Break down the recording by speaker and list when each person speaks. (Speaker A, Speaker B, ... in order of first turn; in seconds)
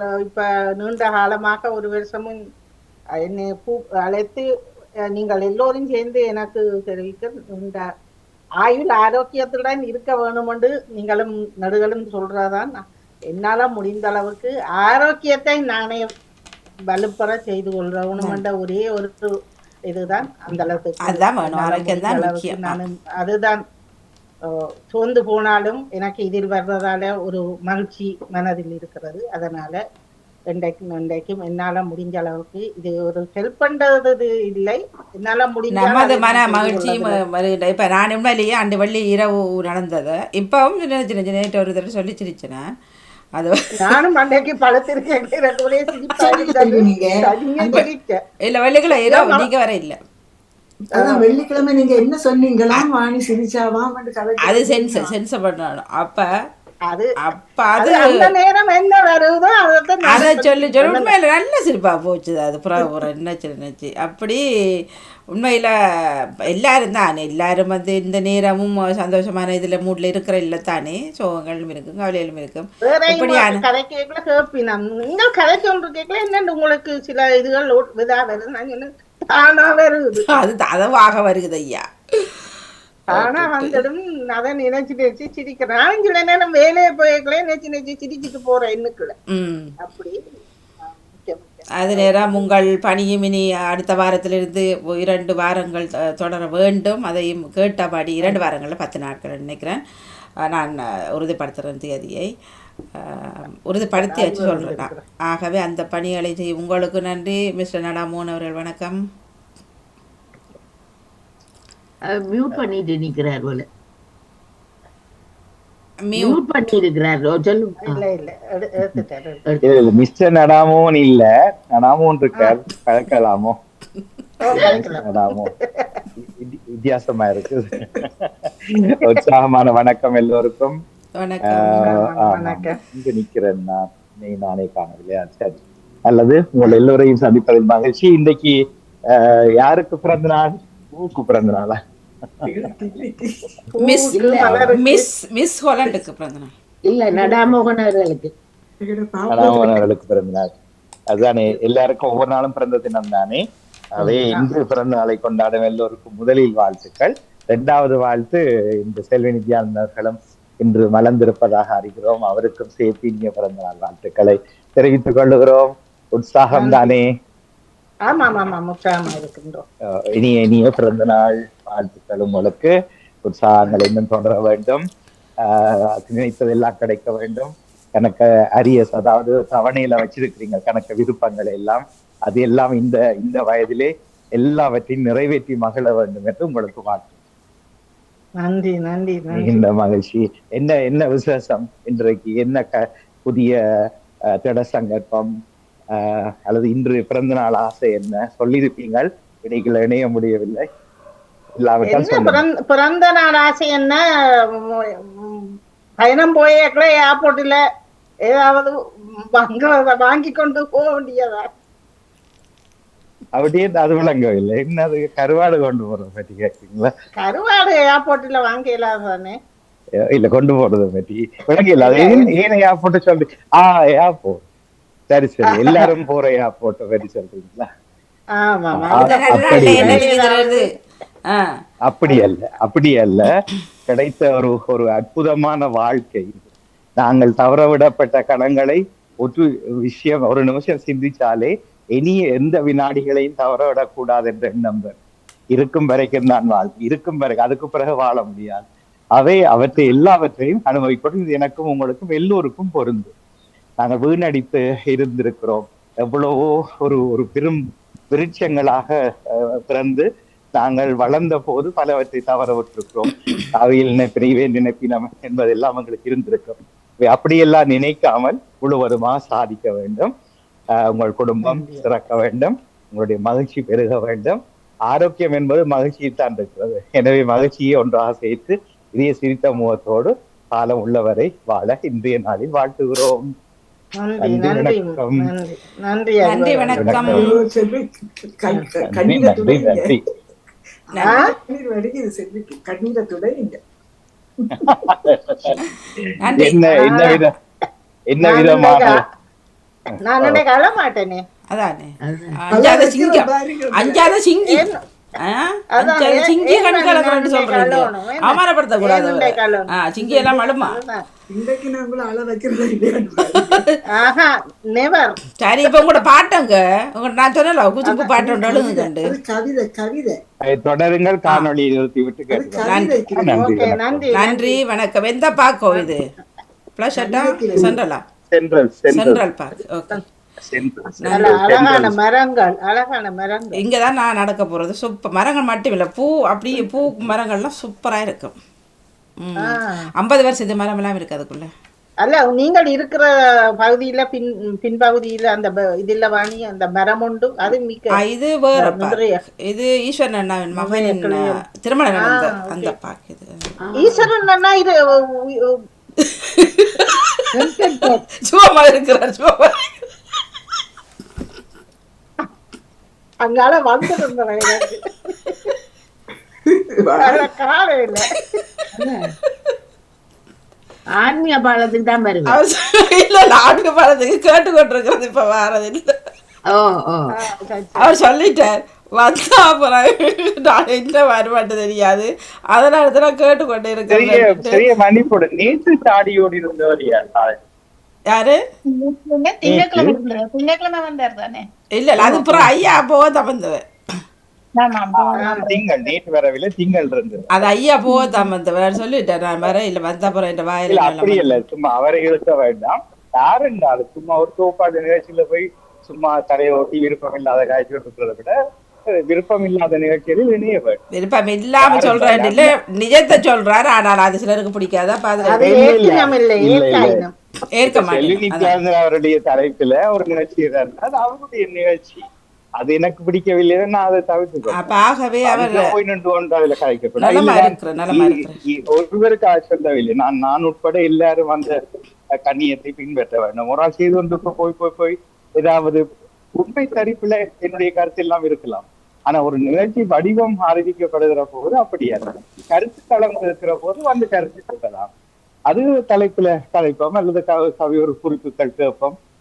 Speaker A: 0.2-2.4, 3.2-4.4, 5.1-7.8, 8.6-16.1, 16.9-19.2, 19.9-23.6, 24.9-29.8, 30.5-37.2, 43.8-48.2, 48.9-49.5, 57.8-61.1, 72.8-80.3, 83.1-89.1, 89.8-90.2, 90.8-92.6, 103.9-105.0, 117.9-119.4, 124.4-126.0, 131.8-132.7, 143.7-145.1, 166.5-166.9, 168.1-169.6, 188.4-189.6, 201.8-204.0, 204.7-207.6, 208.3-208.7, 209.2-211.5, 217.2-219.3, 221.8-222.3, 225.5-225.9, 228.4-230.6, 271.4-271.8, 284.0-287.2, 291.0-291.3, 296.7-297.2, 298.2-299.0, 300.1-301.2, 304.5-304.7, 305.8-311.0, 313.9-315.2, 323.2-324.6, 331.1-333.6, 342.0-343.1, 343.6-348.0, 348.6-349.1, 350.6-351.4, 352.0-352.7, 353.8-354.8, 363.2-365.5, 367.0-368.4, 377.1-377.9, 395.2-395.5, 415.3-417.1
Speaker B: 21.1-22.8, 35.7-42.6, 43.4-43.9, 48.5-50.0, 54.4-56.3, 57.3-58.1, 60.1-64.4, 65.3-65.7, 66.5-73.6, 80.3-82.3, 83.1-83.8, 89.3-89.7, 91.8-99.8, 100.5-102.3, 103.0-109.0, 116.1-116.4, 131.2-131.9, 143.8-144.1, 144.7-146.5, 229.0-230.6, 286.2-287.2, 296.2-296.6, 301.5-304.7, 305.2-310.8, 313.3-313.7, 315.4-319.1, 322.7-322.9, 324.1-326.0, 326.8-328.0, 328.9-330.0, 331.0-331.3, 333.6-338.3, 339.2-341.5, 348.0-353.5, 356.0-357.2, 358.2-359.7, 372.2-375.9, 377.8-384.6, 388.1-388.4, 391.8-393.6, 397.3-401.4, 411.0-415.6, 417.5-418.5, 424.6-425.6, 427.0-428.4
Speaker C: 46.1-47.8, 50.9-55.1, 142.4-143.4, 148.8-149.8, 287.1-287.9, 288.4-289.9, 290.9-293.6, 294.4-294.9, 302.5-304.1, 311.3-313.6, 318.3-320.2, 322.3-323.4, 326.9-327.7, 366.5-367.2
Speaker D: 112.1-113.7, 116.2-118.0, 144.1-144.6, 146.9-148.3, 302.0-302.4, 353.8-354.1, 357.4-358.0, 368.8-369.0, 371.0-372.4, 376.5-377.1
Speaker E: 119.6-123.6, 124.5-125.5, 126.2-130.8, 131.5-138.6, 139.1-141.8, 144.5-144.7, 149.3-150.5, 151.1-153.4, 154.0-167.0, 170.1-172.7, 173.2-174.8, 175.4-187.1, 189.3-193.6, 194.3-195.3, 195.9-200.7, 201.6-202.4, 213.4-216.9, 220.1-224.4, 225.1-227.7, 228.7-230.0, 231.9-233.3, 233.9-236.5, 237.0-245.0, 245.5-248.6, 249.2-253.1, 253.8-258.9, 259.7-260.1, 260.6-270.1, 270.8-283.3, 284.2-285.2, 286.7-287.2, 288.9-290.0, 294.6-295.6, 296.3-297.3, 298.1-299.0, 320.4-324.1, 328.3-329.2, 330.4-331.9, 383.9-387.4, 389.5-389.9, 392.0-392.7, 395.1-397.5, 400.7-408.3, 409.1-410.8, 411.6-412.5, 415.3-417.0, 417.6-422.1, 422.6-424.7, 425.2-431.5, 432.2-435.9, 436.4-444.9, 445.5-448.9
Speaker F: 388.7-391.4, 394.6-395.5, 397.9-398.2